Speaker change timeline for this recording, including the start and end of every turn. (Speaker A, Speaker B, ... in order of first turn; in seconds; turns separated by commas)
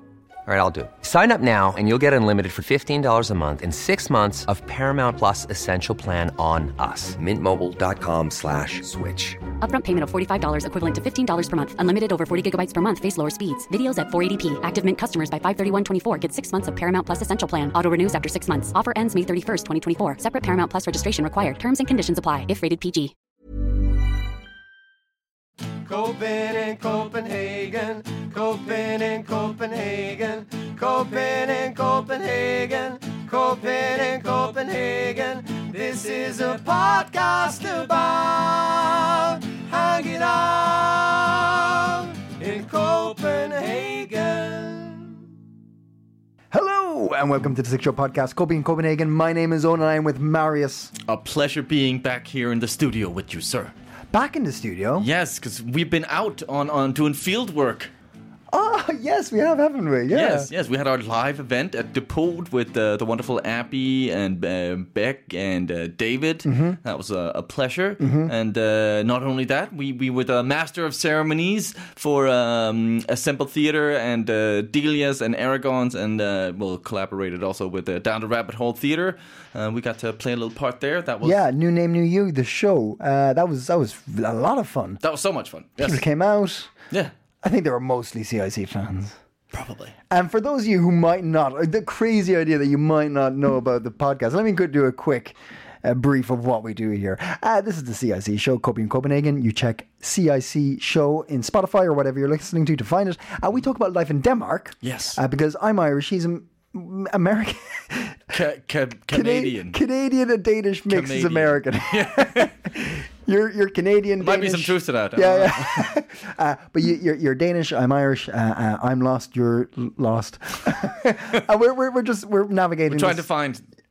Speaker A: 0.5-9.4, Speaker B: 9.6-23.1, Speaker C: 25.9-45.2, Speaker D: 46.5-50.9, Speaker E: 51.0-53.7, Speaker D: 54.1-55.1, Speaker E: 55.0-57.9, Speaker D: 58.5-60.5, Speaker E: 60.1-81.4, Speaker D: 66.4-66.8, Speaker D: 68.0-68.3, Speaker D: 81.2-85.0, Speaker E: 85.0-86.0, Speaker D: 85.8-86.7, Speaker D: 87.4-89.2, Speaker E: 89.5-90.0, Speaker D: 90.1-108.3, Speaker E: 104.8-105.2, Speaker E: 108.3-109.8, Speaker D: 109.1-123.2, Speaker E: 110.9-112.5, Speaker E: 114.2-115.9, Speaker E: 122.9-123.6